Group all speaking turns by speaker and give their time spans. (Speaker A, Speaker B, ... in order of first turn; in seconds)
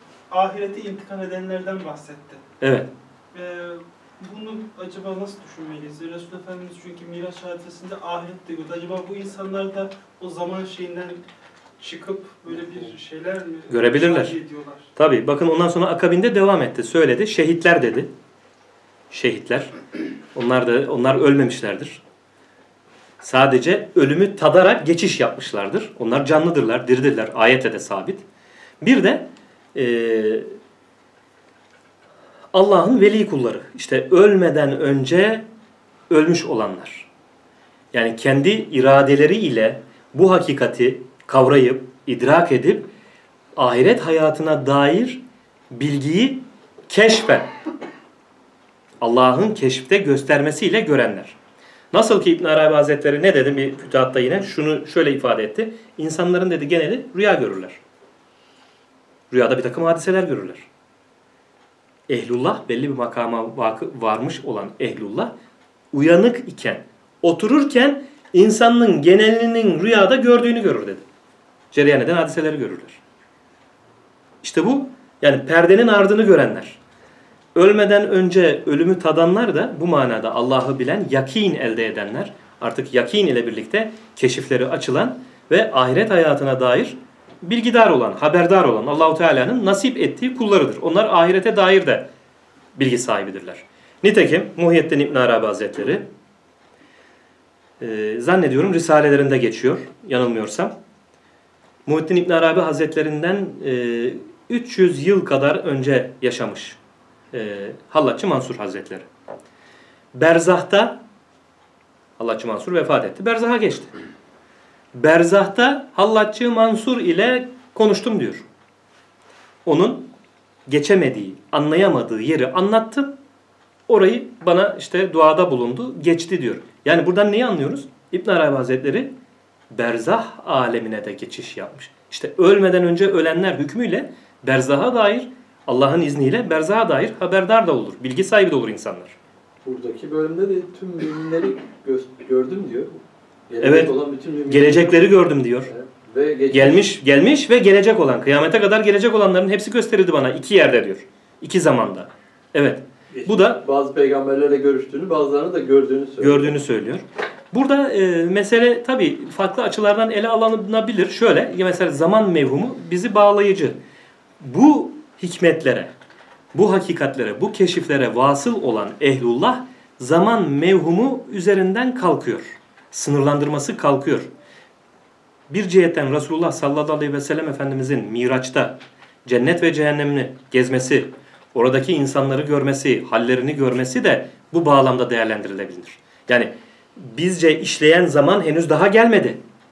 Speaker A: 0.3-2.4, 3.3-11.2, 11.8-14.9
Speaker B: 2.6-2.9, 13.7-14.4, 14.9-18.1, 19.1-19.7, 20.3-22.0, 23.2-28.2, 28.8-30.5, 32.5-35.5, 36.1-37.1, 37.9-42.9, 43.5-47.5, 49.0-51.4, 51.9-57.8, 59.3-60.7, 62.1-65.3, 65.9-71.0, 71.7-73.0, 74.4-76.8, 77.5-92.1, 92.7-96.1, 97.8-100.7, 101.8-106.8, 107.3-109.0, 110.1-111.0, 112.2-113.9, 114.9-118.5, 119.7-120.1, 120.7-123.1, 123.9-129.1, 129.7-139.2, 143.6-143.9, 144.5-145.7, 146.5-153.6, 156.2-163.8, 164.4-165.9, 166.5-174.3, 175.5-189.4
Speaker C: 139.6-146.9, 153.1-156.6